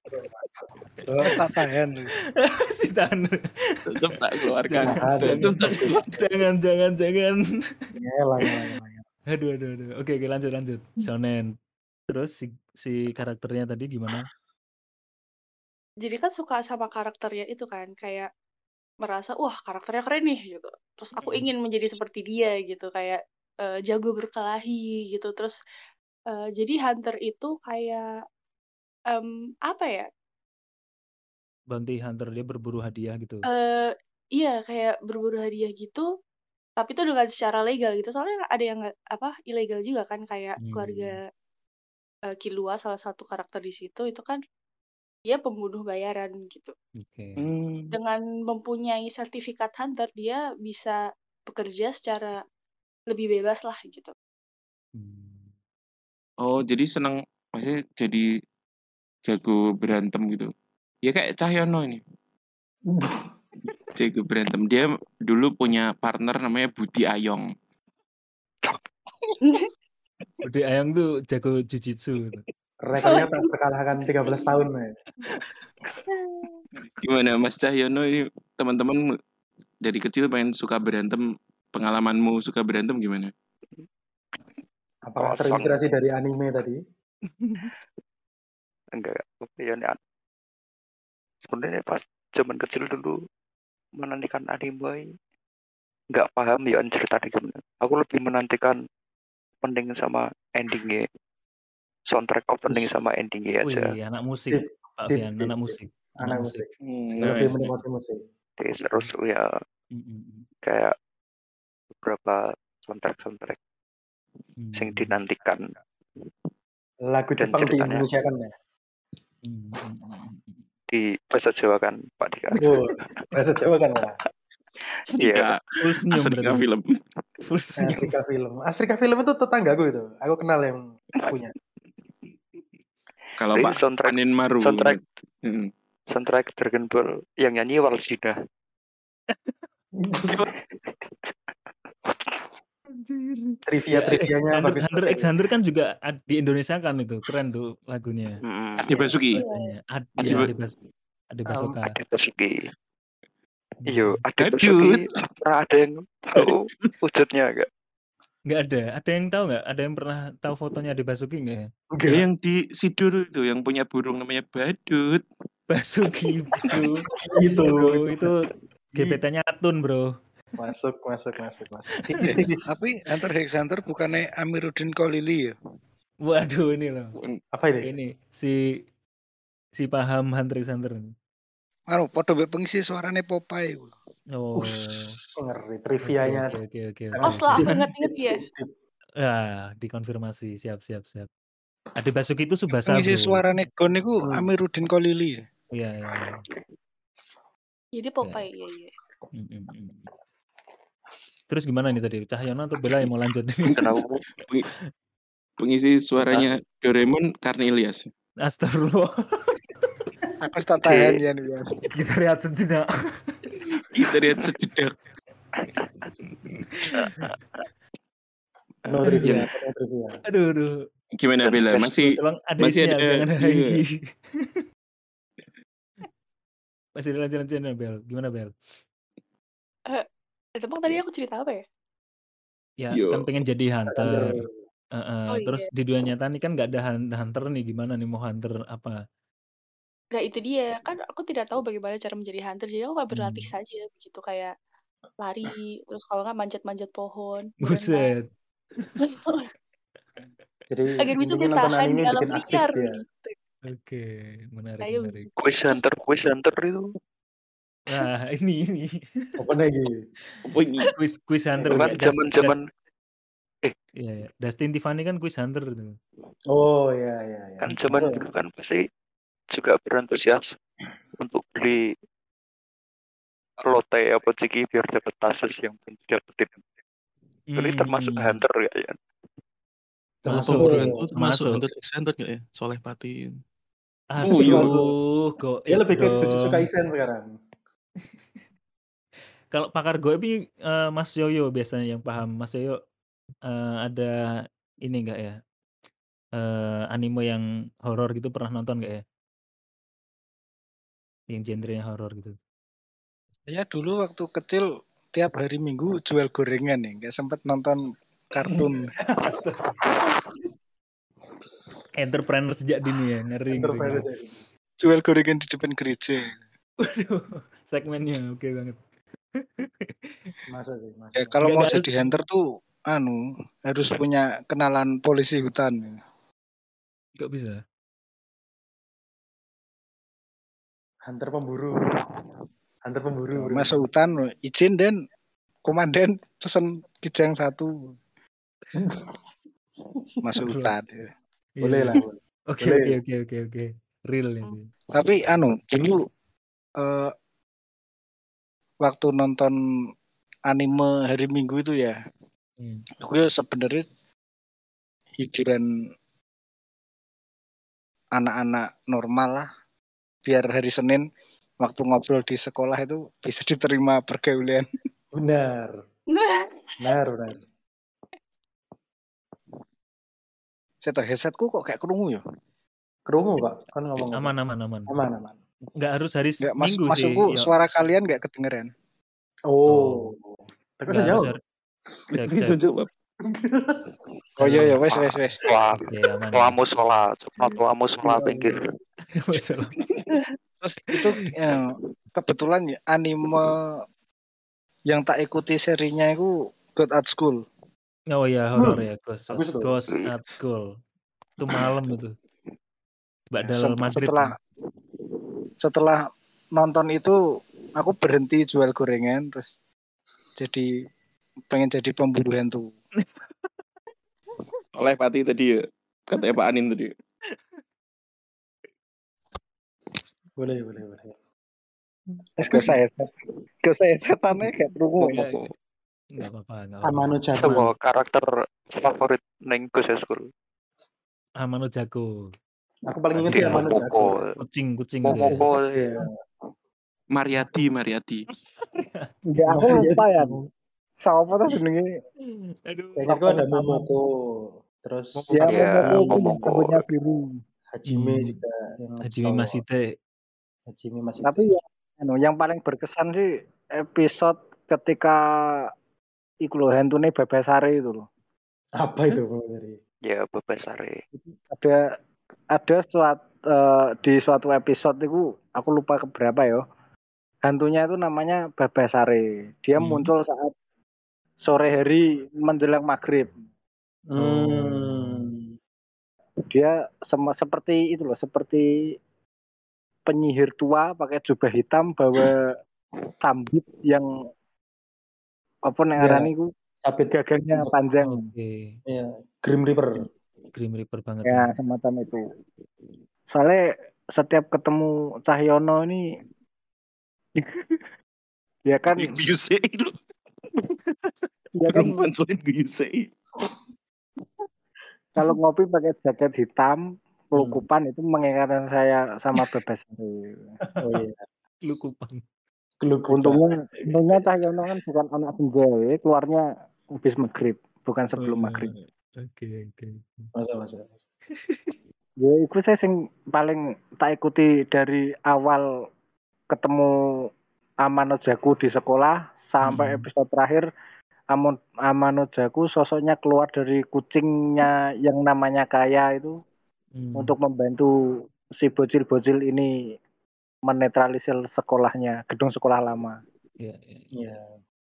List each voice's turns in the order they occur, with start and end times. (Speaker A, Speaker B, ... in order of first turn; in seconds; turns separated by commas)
Speaker A: 0.1-1.4, Speaker B: 1.2-2.1, Speaker C: 2.4-7.4, Speaker D: 3.9-6.2, Speaker A: 4.8-6.0, Speaker A: 8.0-9.0, Speaker C: 9.3-11.5, Speaker C: 12.1-14.3, Speaker E: 16.0-18.3, Speaker E: 19.0-25.6, Speaker C: 21.2-21.5, Speaker E: 26.3-28.0, Speaker E: 29.1-30.1, Speaker C: 31.7-33.4, Speaker E: 33.5-36.1, Speaker E: 36.8-41.2, Speaker C: 40.6-41.2, Speaker E: 42.3-44.4, Speaker E: 45.3-46.7, Speaker C: 47.0-47.4, Speaker D: 47.4-47.9, Speaker E: 47.9-52.4, Speaker E: 53.1-54.1, Speaker C: 54.9-55.5, Speaker D: 56.4-58.2, Speaker D: 59.2-60.5, Speaker D: 61.0-62.0, Speaker A: 62.9-63.3, Speaker D: 63.9-67.5, Speaker E: 69.4-69.7, Speaker C: 70.4-72.4, Speaker A: 72.8-74.9, Speaker E: 73.0-73.5, Speaker E: 76.1-76.6, Speaker D: 77.0-79.1, Speaker D: 79.8-81.2, Speaker D: 81.7-83.3, Speaker A: 85.1-86.8, Speaker F: 85.2-85.8, Speaker C: 87.4-87.6, Speaker F: 89.0-90.0, Speaker F: 91.4-93.2, Speaker F: 94.0-95.0, Speaker F: 96.1-98.8, Speaker F: 99.6-101.0, Speaker F: 102.1-103.9, Speaker C: 103.6-106.6, Speaker A: 104.5-108.2, Speaker D: 106.8-107.6, Speaker F: 108.6-109.5, Speaker C: 109.9-110.5, Speaker F: 110.6-110.9, Speaker F: 112.0-113.6, Speaker C: 114.6-115.1, Speaker F: 114.7-115.8, Speaker A: 117.1-118.5, Speaker F: 117.4-118.1, Speaker C: 119.4-120.6, Speaker F: 120.9-123.3, Speaker A: 122.6-124.2, Speaker F: 125.1-125.5, Speaker D: 125.2-126.9, Speaker C: 125.8-126.6, Speaker C: 127.4-128.1, Speaker A: 127.8-131.5, Speaker D: 133.4-135.7, Speaker F: 133.5-135.0, Speaker F: 136.1-138.3, Speaker C: 143.0-148.4, Speaker A: 143.7-145.3, Speaker F: 148.4-149.2, Speaker D: 148.8-149.4, Speaker E: 149.3-149.7, Speaker C: 149.4-150.8, Speaker D: 150.2-150.5, Speaker C: 151.3-151.9, Speaker F: 151.8-152.7, Speaker C: 153.9-154.2, Speaker F: 153.9-157.7, Speaker D: 154.4-155.2, Speaker D: 156.3-156.6, Speaker C: 158.5-161.7, Speaker A: 161.9-162.2, Speaker D: 162.1-165.2, Speaker C: 165.7-168.4, Speaker A: 167.2-168.3, Speaker A: 168.9-169.2, Speaker C: 168.9-170.1, Speaker A: 170.6-172.9, Speaker G: 172.2-172.5, Speaker B: 172.7-175.5, Speaker C: 176.2-177.2, Speaker A: 177.5-177.9, Speaker C: 177.8-178.6, Speaker C: 179.8-181.1, Speaker B: 181.9-183.9, Speaker C: 184.4-185.1, Speaker A: 184.6-186.6, Speaker C: 186.0-187.9, Speaker A: 187.1-188.7, Speaker E: 187.2-188.4, Speaker C: 189.2-191.3, Speaker C: 192.0-193.4, Speaker B: 192.8-195.4, Speaker A: 194.2-194.5, Speaker C: 195.7-196.4, Speaker E: 197.9-198.9, Speaker C: 199.3-200.0, Speaker C: 201.5-203.8, Speaker F: 203.8-204.2, Speaker D: 205.6-208.1, Speaker C: 208.4-209.6, Speaker B: 210.4-211.9, Speaker C: 211.9-213.4, Speaker D: 213.9-214.9, Speaker C: 216.8-217.3, Speaker A: 218.8-220.2, Speaker C: 220.3-220.7, Speaker D: 221.2-223.8, Speaker C: 221.6-223.9, Speaker C: 227.0-228.5, Speaker E: 230.6-231.6, Speaker C: 232.8-234.4, Speaker D: 232.9-233.2, Speaker A: 233.9-234.5, Speaker C: 235.0-239.0, Speaker E: 235.3-235.7, Speaker E: 240.1-244.5, Speaker C: 243.1-243.5, Speaker E: 245.2-248.1, Speaker C: 247.6-248.2, Speaker C: 248.8-249.0, Speaker E: 249.0-249.5, Speaker A: 250.7-252.9, Speaker E: 251.0-253.3, Speaker C: 253.7-255.3, Speaker E: 254.8-255.8, Speaker F: 255.4-256.9, Speaker C: 257.9-259.4, Speaker A: 259.4-260.0, Speaker D: 260.4-260.9, Speaker C: 260.9-262.6, Speaker F: 261.7-262.7, Speaker C: 264.0-265.9, Speaker A: 266.5-268.1, Speaker F: 267.6-268.8, Speaker F: 269.5-270.5, Speaker F: 271.2-271.9, Speaker F: 273.6-276.6, Speaker C: 277.5-278.4, Speaker F: 277.6-279.0, Speaker A: 280.2-281.1, Speaker C: 280.3-281.6, Speaker G: 280.3-283.4, Speaker C: 284.1-286.7, Speaker D: 284.2-284.7, Speaker A: 284.3-284.9, Speaker A: 285.7-287.3, Speaker C: 289.5-292.8, Speaker C: 293.4-294.1, Speaker C: 294.9-295.4, Speaker C: 296.4-299.0, Speaker C: 301.3-302.3, Speaker B: 303.5-307.8, Speaker B: 308.3-308.9, Speaker C: 309.0-309.8, Speaker C: 311.9-314.1, Speaker A: 313.5-314.4, Speaker B: 314.8-316.4, Speaker C: 316.8-318.8, Speaker C: 319.4-320.3, Speaker A: 320.5-321.4, Speaker B: 321.1-326.0, Speaker C: 321.4-322.1, Speaker C: 327.2-327.6, Speaker A: 331.1-331.9, Speaker A: 332.8-333.8, Speaker B: 333.3-335.0, Speaker B: 335.6-337.9, Speaker A: 338.8-339.2, Speaker A: 339.8-340.4, Speaker B: 340.2-341.1, Speaker C: 340.4-340.7, Speaker C: 341.6-344.7, Speaker A: 341.6-343.0, Speaker B: 344.9-346.0, Speaker B: 346.8-347.1, Speaker B: 348.8-349.5, Speaker B: 350.5-351.9, Speaker C: 352.6-352.8, Speaker B: 353.0-353.9, Speaker B: 355.2-355.6, Speaker B: 358.1-359.5, Speaker B: 360.2-361.0, Speaker B: 361.6-364.6, Speaker A: 365.1-365.8, Speaker E: 366.1-366.9, Speaker A: 366.8-367.4, Speaker B: 370.8-372.2, Speaker A: 373.1-374.3, Speaker C: 373.9-374.9, Speaker A: 374.9-375.4, Speaker C: 375.8-377.5, Speaker B: 376.4-378.7, Speaker A: 379.5-381.3, Speaker C: 379.7-380.1, Speaker C: 380.9-381.4, Speaker C: 382.1-382.6, Speaker D: 382.2-382.9, Speaker A: 383.2-383.8, Speaker C: 384.4-384.8, Speaker B: 384.4-385.4, Speaker F: 384.9-388.6, Speaker C: 385.9-386.6, Speaker A: 388.1-388.5, Speaker C: 389.1-389.8, Speaker B: 390.6-393.8, Speaker B: 394.9-397.4, Speaker C: 398.1-400.8, Speaker A: 398.6-399.7, Speaker C: 401.4-402.1, Speaker C: 403.3-404.3, Speaker B: 403.4-404.4, Speaker B: 405.6-407.1, Speaker B: 407.7-409.5, Speaker B: 410.4-410.7, Speaker B: 411.5-412.7, Speaker D: 414.7-416.9, Speaker A: 420.4-421.1, Speaker B: 422.4-423.1, Speaker A: 422.4-422.8, Speaker B: 423.6-425.3, Speaker F: 425.0-425.5, Speaker C: 425.1-425.4, Speaker C: 426.1-427.1, Speaker A: 426.8-427.7, Speaker F: 427.3-430.2, Speaker C: 431.4-432.3, Speaker A: 432.9-434.2, Speaker C: 433.1-433.7, Speaker F: 433.3-434.4, Speaker C: 434.4-435.4, Speaker F: 435.1-435.9, Speaker A: 435.7-436.1, Speaker D: 437.1-438.2, Speaker C: 438.3-439.1, Speaker B: 439.3-440.4, Speaker A: 439.5-440.4, Speaker B: 441.0-441.9, Speaker C: 442.2-443.1, Speaker A: 442.9-446.1, Speaker B: 443.1-443.8, Speaker B: 445.4-447.4, Speaker F: 445.4-446.8, Speaker A: 447.7-449.6, Speaker C: 447.9-448.4, Speaker C: 449.1-449.9, Speaker A: 450.7-451.5, Speaker B: 451.2-455.2, Speaker B: 456.4-458.1, Speaker A: 458.8-459.8, Speaker F: 460.0-461.0, Speaker B: 461.5-461.8, Speaker B: 462.5-466.6, Speaker B: 467.4-470.5, Speaker C: 469.8-470.1, Speaker B: 471.4-473.3, Speaker A: 474.1-475.4, Speaker C: 474.2-475.3, Speaker B: 476.5-478.9, Speaker B: 480.1-482.4, Speaker B: 483.2-484.1, Speaker B: 485.7-486.5, Speaker A: 486.0-486.3, Speaker A: 486.8-487.7, Speaker B: 487.1-488.2, Speaker C: 488.0-488.8, Speaker A: 488.9-490.1, Speaker C: 490.5-491.5, Speaker B: 491.2-492.2, Speaker B: 493.3-496.0, Speaker B: 498.6-499.2, Speaker D: 498.9-500.0, Speaker B: 501.5-502.0, Speaker D: 501.7-503.1, Speaker B: 505.2-510.5, Speaker C: 507.3-507.6, Speaker A: 510.8-511.2, Speaker C: 511.6-512.2, Speaker A: 512.8-513.4, Speaker B: 513.1-516.5, Speaker B: 517.0-518.7, Speaker C: 518.2-520.3, Speaker A: 520.4-521.0, Speaker C: 521.4-521.7, Speaker B: 522.2-525.6, Speaker B: 526.5-526.9, Speaker B: 527.8-530.6, Speaker C: 529.6-530.1, Speaker B: 531.3-536.4, Speaker C: 536.9-537.3, Speaker B: 537.2-537.9, Speaker B: 538.6-539.7, Speaker B: 540.6-543.2, Speaker C: 543.6-544.1, Speaker A: 544.1-544.6